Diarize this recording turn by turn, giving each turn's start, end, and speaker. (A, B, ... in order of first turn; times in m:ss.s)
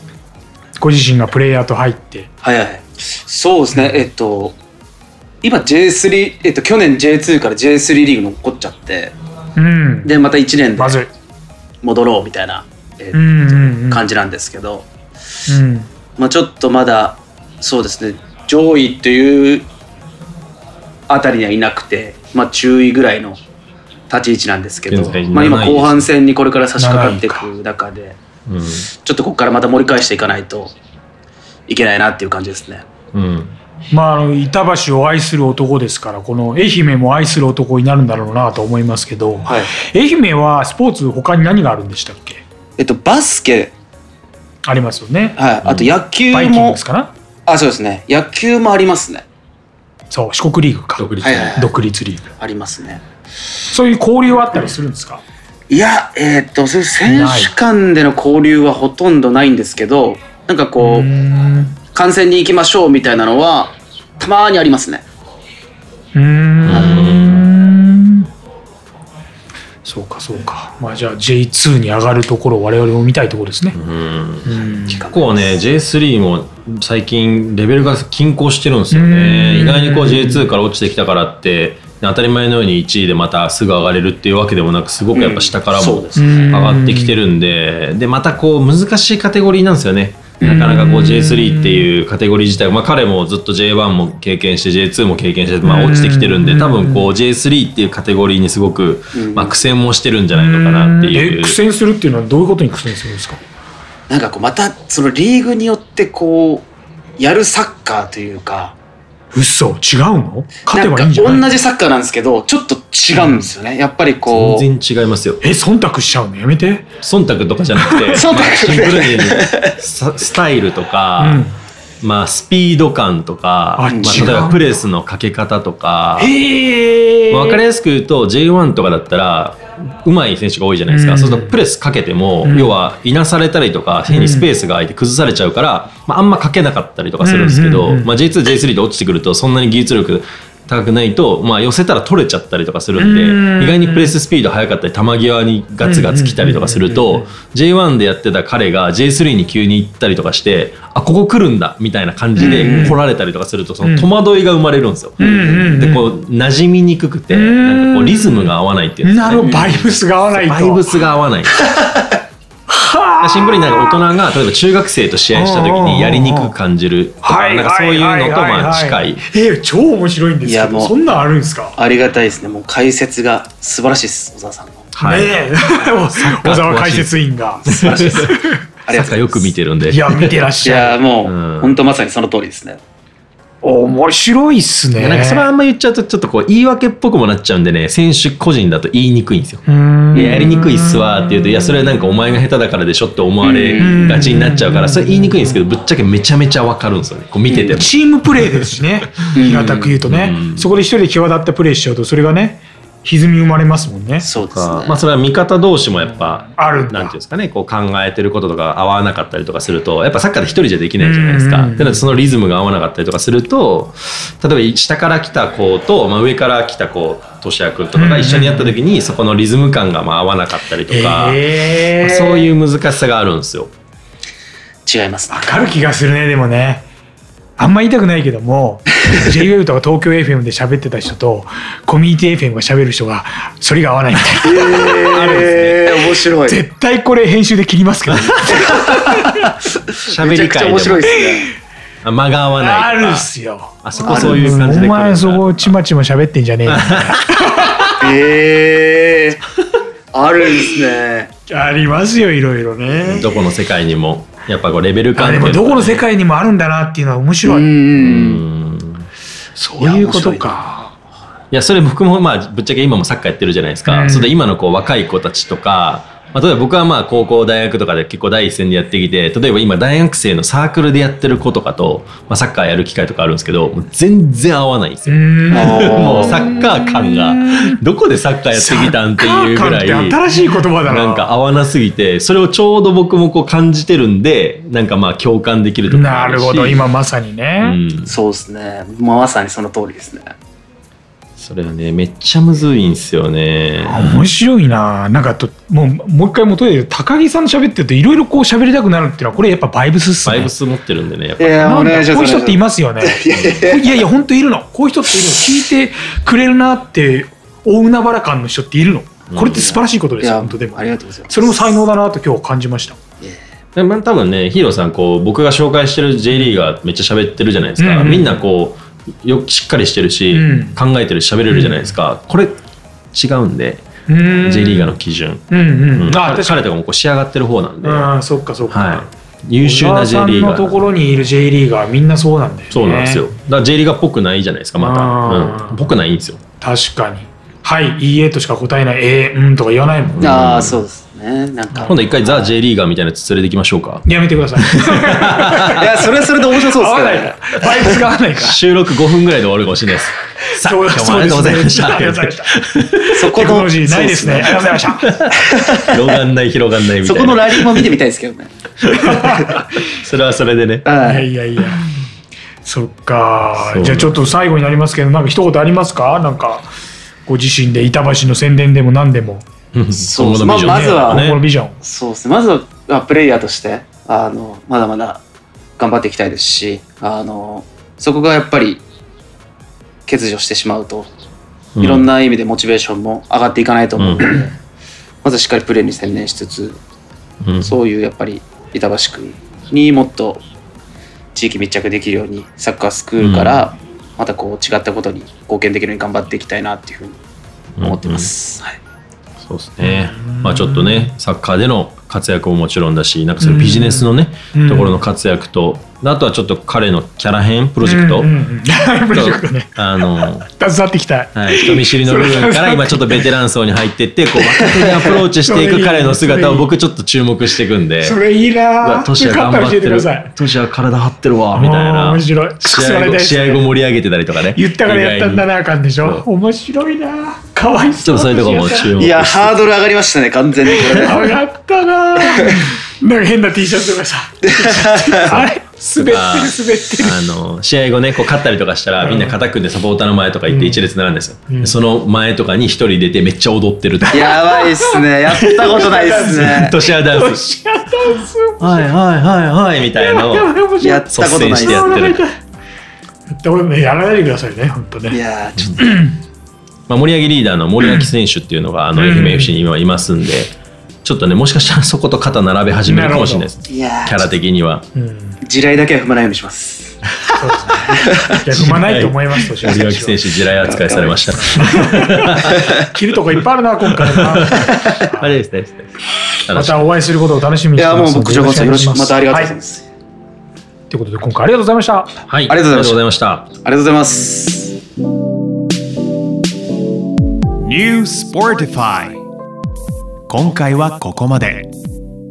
0:00.8-0:02.3 A
0:02.4-0:04.6 B
0:05.4-0:09.1 B
0:09.6-0:10.1 A
0:10.0-0:11.0 B
0:10.8-0:11.1 A
0:11.8-0:14.9 B
0:13.1-0:14.0 A
0:15.5-0:15.9 A
0:16.2-0:19.6 B
0:21.1-0:23.4 B
0:24.1-0:28.2 B
0:24.9-0:26.1 C
0:26.8-0:27.5 A
0:28.5-0:28.9 C
0:29.0-0:30.7 B
0:31.7-0:32.8 B
0:33.1-0:33.6 C
0:33.9-0:42.4 A
0:39.5-0:39.8 B
0:42.8-0:43.7 B
0:44.6-0:45.4 A
0:45.4-0:46.8 B
0:45.6-0:45.9 C
0:46.2-0:47.1 A
0:47.5-0:49.2 B
0:50.1-0:52.3 A
0:51.0-0:51.5 C
0:51.2-0:51.8 B
0:52.4-0:53.0 B
0:53.6-0:55.2 A
0:55.7-1:01.1 B
0:57.0-0:57.5 A
1:00.8-1:01.8 A
1:01.9-1:05.0 B
1:06.1-1:08.3 A
1:06.6-1:07.5 C
1:06.7-1:07.1 B
1:09.8-1:13.8 A
1:13.7-1:41.6 C
1:14.4-1:15.0 A
1:14.7-1:15.6 B
1:18.9-1:20.5 A
1:25.1-1:26.6 B
1:26.2-1:27.2 A
1:30.4-1:30.7 B
1:30.4-1:31.9 A
1:35.6-1:37.1 A
1:39.1-1:39.6 B
1:40.3-1:43.4 A
1:44.1-1:48.7 B
1:49.3-1:51.5 A
1:50.7-1:54.7 B
1:53.2-1:53.4 A
1:54.3-1:55.4 C
1:55.4-1:56.9 A
1:57.0-2:01.4 C
1:57.8-1:58.3 A
1:58.2-1:59.7 B
2:01.2-2:01.5 A
2:02.0-2:06.3 C
2:03.8-2:04.7 A
2:03.9-2:04.3 B
2:06.2-2:07.6 A
2:07.3-2:41.7 C
2:10.9-2:11.6 A
2:12.4-2:12.8 A
2:14.1-2:14.5 A
2:17.2-2:18.1 A
2:23.0-2:24.1 A
2:25.8-2:27.3 A
2:32.4-2:33.0 B
2:32.4-2:33.0 A
2:33.8-2:34.1 A
2:35.2-2:35.6 B
2:35.2-2:36.1 A
2:37.3-2:40.9 A
2:39.4-2:39.8 B
2:42.7-2:44.0 A
2:43.2-2:49.2 C
2:45.3-2:46.5 A
2:47.2-2:51.8 A
2:50.4-2:51.0 B
2:51.8-2:54.9 B
2:54.9-2:55.4 C
2:55.0-2:58.6 A
2:56.1-2:57.1 C
2:57.6-2:58.3 C
2:57.7-2:58.3 B
2:58.8-2:59.5 B
2:58.9-3:00.4 C
2:59.9-3:01.1 A
3:00.6-3:02.8 B
3:01.2-3:01.8 C
3:03.6-3:05.5 A
3:05.0-3:09.6 C
3:09.6-3:11.7 A
3:10.1-3:10.6 B
3:10.1-3:17.9 C
3:13.4-3:13.9 B
3:13.8-3:15.6 A
3:17.5-3:17.8 B
3:17.7-3:24.3 A
3:19.3-3:20.0 B
3:20.0-3:20.7 C
3:24.2-3:25.0 B
3:24.4-3:43.7 C
3:26.4-3:27.1 A
3:31.0-3:32.0 A
3:37.9-3:38.8 A
3:40.9-3:42.5 A
3:44.8-3:45.6 B
3:45.3-3:46.9 A
3:47.6-3:55.5 A
3:54.4-3:56.6 B
3:55.0-3:56.2 C
3:56.4-3:59.5 A
3:58.1-3:59.5 C
3:58.5-3:58.8 B
4:00.0-4:01.1 C
4:00.2-4:01.5 B
4:02.0-4:03.3 C
4:02.6-4:07.9 A
4:03.8-4:05.7 C
4:04.0-4:04.6 B
4:06.7-4:07.8 C
4:08.0-4:09.4 B
4:10.1-4:11.3 B
4:11.5-4:13.2 A
4:13.1-4:16.0 C
4:15.2-4:17.7 A
4:17.4-4:18.4 B
4:18.0-4:19.1 C
4:19.6-4:20.9 A
4:19.8-4:20.6 B
4:21.5-4:46.9 C
4:23.9-4:24.4 A
4:35.1-4:37.8 A
4:35.5-4:36.3 B
4:38.5-4:41.3 A
4:45.9-4:47.8 A
4:47.6-4:48.1 C
4:48.0-4:50.3 B
4:51.4-4:54.2 C
4:53.9-5:00.5 A
5:00.2-5:01.7 C
5:01.4-5:04.0 B
5:01.6-5:13.0 A
5:03.3-5:03.7 C
5:09.3-5:09.6 C
5:09.5-5:11.8 B
5:13.8-5:22.6 C
5:17.8-5:18.4 A
5:20.3-5:20.8 A
5:21.5-5:21.9 A
5:23.1-5:28.1 C
5:24.1-5:25.0 A
5:25.5-5:26.6 A
5:27.8-5:29.1 A
5:28.7-5:30.8 C
5:29.6-5:33.2 A
5:32.7-5:36.4 C
5:34.8-5:35.8 A
5:36.6-5:40.4 A
5:40.0-5:40.8 C
5:40.2-5:42.5 B
5:41.7-5:42.0 A
5:41.8-5:44.0 C
5:44.0-5:45.8 A
5:44.6-5:45.9 C
5:45.8-5:48.0 B
5:46.4-5:48.6 A
5:48.4-5:53.2 C
5:50.5-5:55.1 A
5:53.1-5:54.8 B
5:55.0-5:57.9 C
5:55.4-5:56.0 B
5:57.0-5:58.5 B
5:58.8-6:00.9 C
5:59.1-5:59.5 A
5:59.1-5:59.6 B
6:00.8-6:01.3 B
6:01.0-6:01.8 A
6:02.6-6:06.7 A
6:03.6-6:04.3 C
6:07.2-6:09.4 A
6:09.7-6:11.4 C
6:09.9-6:11.3 B
6:10.6-6:11.8 A
6:11.8-6:15.2 B
6:15.8-6:18.8 B
6:20.1-6:21.1 B
6:21.8-6:22.1 C
6:21.8-6:24.6 B
6:24.0-6:24.4 C
6:25.2-6:26.8 B
6:27.4-6:27.8 C
6:27.6-6:30.4 B
6:31.3-6:37.2 B
6:33.2-6:33.7 C
6:37.8-6:38.3 C
6:37.8-6:38.8 B
6:39.4-6:48.3 C
6:39.8-6:41.1 A
6:43.4-6:45.0 A
6:47.8-6:53.2 A
6:49.1-6:50.4 C
6:51.3-6:58.2 C
6:54.6-6:56.7 A
6:58.0-7:00.3 A
6:58.8-7:05.5 C
7:01.5-7:03.6 A
7:04.5-7:08.9 A
7:08.0-7:09.7 C
7:09.0-7:11.3 B
7:10.7-7:17.3 A
7:12.2-7:12.6 B
7:14.4-7:15.5 B
7:16.0-7:24.3 C
7:19.0-7:19.4 A
7:20.5-7:20.8 A
7:21.5-7:21.7 A
7:24.0-7:29.0 A
7:24.1-7:26.7 B
7:26.2-7:27.4 C
7:28.6-7:30.5 C
7:30.0-7:32.4 A
7:30.8-7:32.0 B
7:31.1-7:32.2 C
7:33.3-7:35.2 A
7:35.1-7:35.8 B
7:35.8-7:36.2 A
7:36.9-7:44.8 C
7:38.9-7:39.6 A
7:42.8-7:43.5 A
7:43.6-7:44.4 B
7:44.9-7:45.4 A
7:45.4-7:47.0 B
7:47.4-7:50.2 A
7:47.9-7:48.4 B
7:48.5-7:52.6 C
7:50.6-7:51.2 B
7:50.8-7:55.3 A
7:53.9-7:56.9 C
7:54.5-7:55.0 B
7:56.5-7:59.6 A
7:57.8-7:59.9 B
8:00.9-8:02.2 A
8:02.3-8:03.5 C
8:02.5-8:03.0 B
8:03.6-8:04.8 B
8:07.6-8:09.2 D
8:10.3-8:11.7 D